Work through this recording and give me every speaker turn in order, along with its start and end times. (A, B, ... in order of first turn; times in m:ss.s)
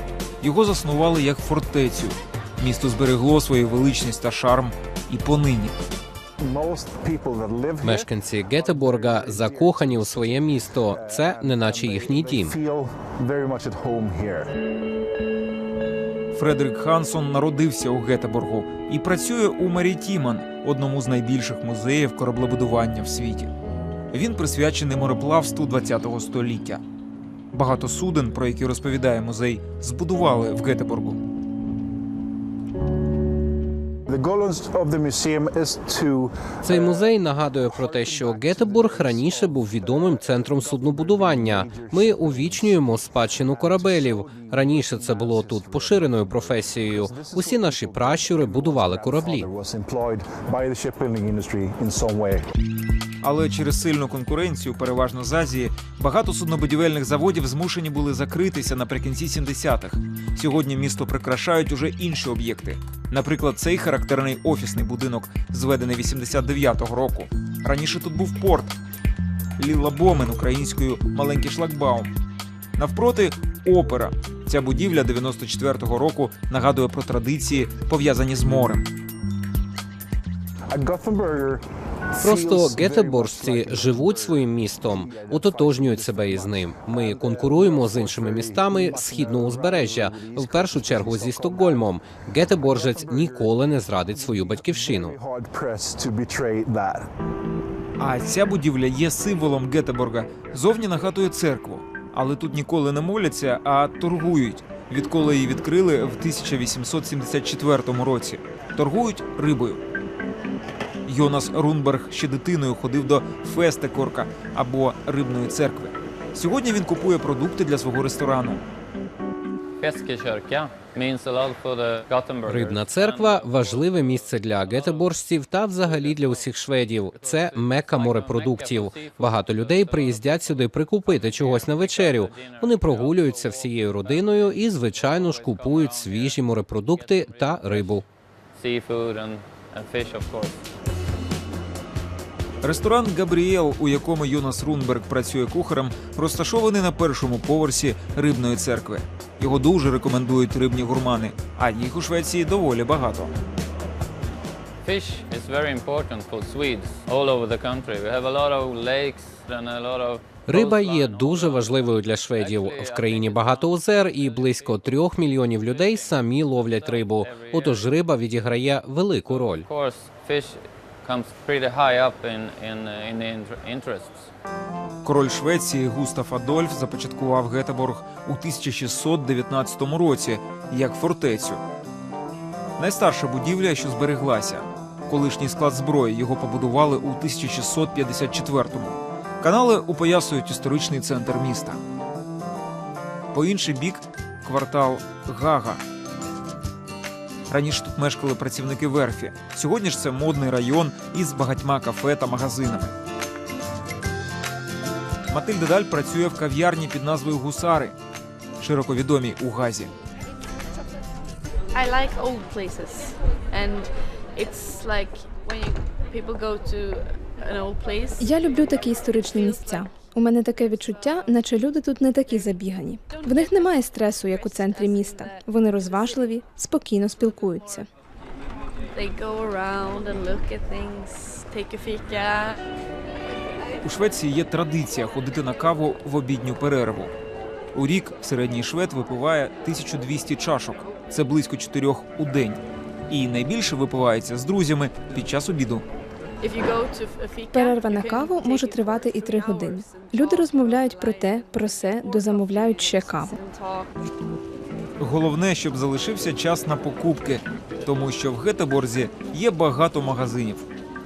0:00.4-0:05.8 A
0:06.4-0:14.5 B
0:07.8-0:12.6 C
0:16.3-0:23.5 A
0:24.1-0:26.8 A
0:27.5-0:31.2 A
0:34.1-0:52.4 B
0:36.6-0:49.5 C
0:53.2-1:08.7 A
1:09.6-1:12.1 A
1:12.8-1:18.9 A
1:20.7-1:37.1 B
1:22.2-1:35.2 C
1:38.0-1:49.8 A
1:51.0-1:58.6 A
1:59.8-2:05.1 D
2:02.4-2:18.0 C
2:05.8-2:06.5 D
2:07.0-2:18.0 D
2:18.5-2:20.6 D
2:22.6-2:33.3 A
2:34.8-2:47.9 D
2:40.5-2:49.6 C
2:49.3-2:54.3 D
2:55.0-3:01.6 A
3:02.8-3:11.8 A
3:13.3-3:15.8 A
3:17.5-3:22.9 A
3:25.3-3:27.9 A
3:28.6-3:29.9 A
3:31.7-3:41.5 E
3:38.2-3:47.9 F
3:42.2-3:46.4 E
3:47.0-3:47.8 E
3:48.9-3:52.6 E
3:53.8-3:57.1 A
3:57.7-4:05.8 A
4:06.4-4:13.9 E
4:07.5-4:13.3 F
4:15.0-4:20.6 A